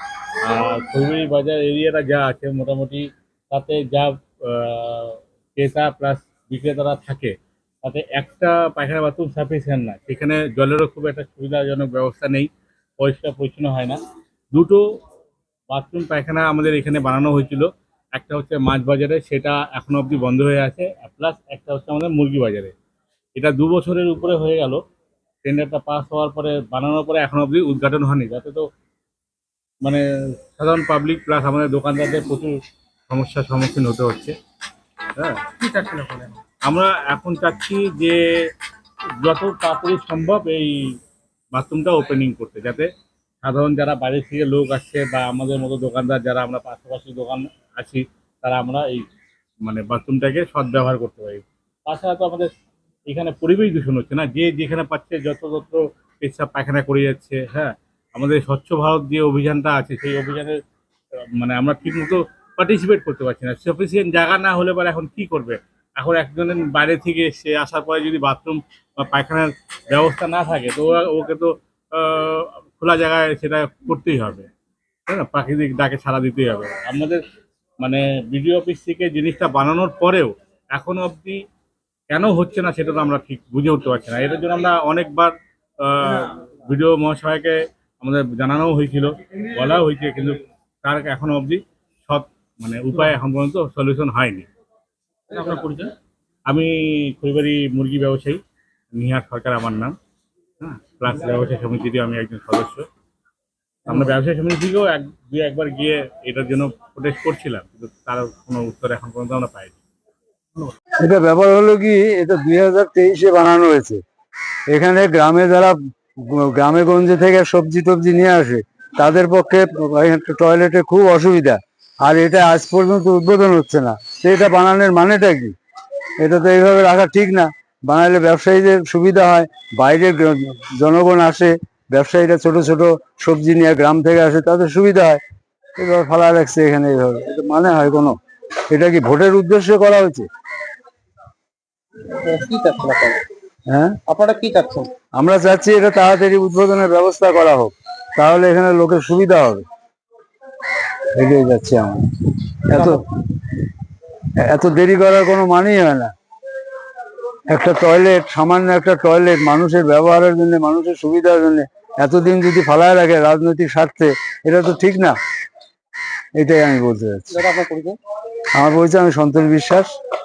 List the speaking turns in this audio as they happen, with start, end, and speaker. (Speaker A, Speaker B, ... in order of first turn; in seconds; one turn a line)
Speaker A: 0.4-14.0
Speaker A: 14.5-14.8
Speaker A: 15.7-22.7
Speaker A: 23.4-24.8
Speaker A: 25.4-28.6
Speaker A: 30.6-32.6
Speaker A: 33.1-34.4
Speaker B: 35.6-36.4
Speaker A: 36.6-38.2
Speaker A: 39.2-40.7
Speaker A: 41.5-42.9
Speaker A: 43.4-49.0
Speaker A: 49.6-52.5
Speaker A: 53.1-60.5
Speaker A: 61.4-74.5
Speaker A: 75.1-77.2
Speaker A: 77.8-81.4
Speaker A: 82.1-94.5
Speaker B: 95.3-95.9
Speaker A: 96.5-98.4
Speaker A: 98.9-100.0
Speaker A: 100.6-102.9
Speaker A: 103.9-109.8
Speaker C: 111.0-114.0
Speaker C: 114.7-115.8
Speaker C: 116.3-125.5
Speaker C: 126.2-135.2
Speaker C: 135.8-138.1
Speaker C: 138.7-140.3
Speaker B: 142.3-143.2
Speaker C: 143.7-143.9
Speaker B: 144.1-144.9
Speaker C: 145.2-149.6
Speaker C: 151.2-152.0
Speaker C: 152.7-153.4
Speaker C: 154.4-156.1
Speaker C: 157.5-165.2
Speaker C: 166.4-167.4
Speaker B: 167.4-168.0
Speaker C: 168.6-169.9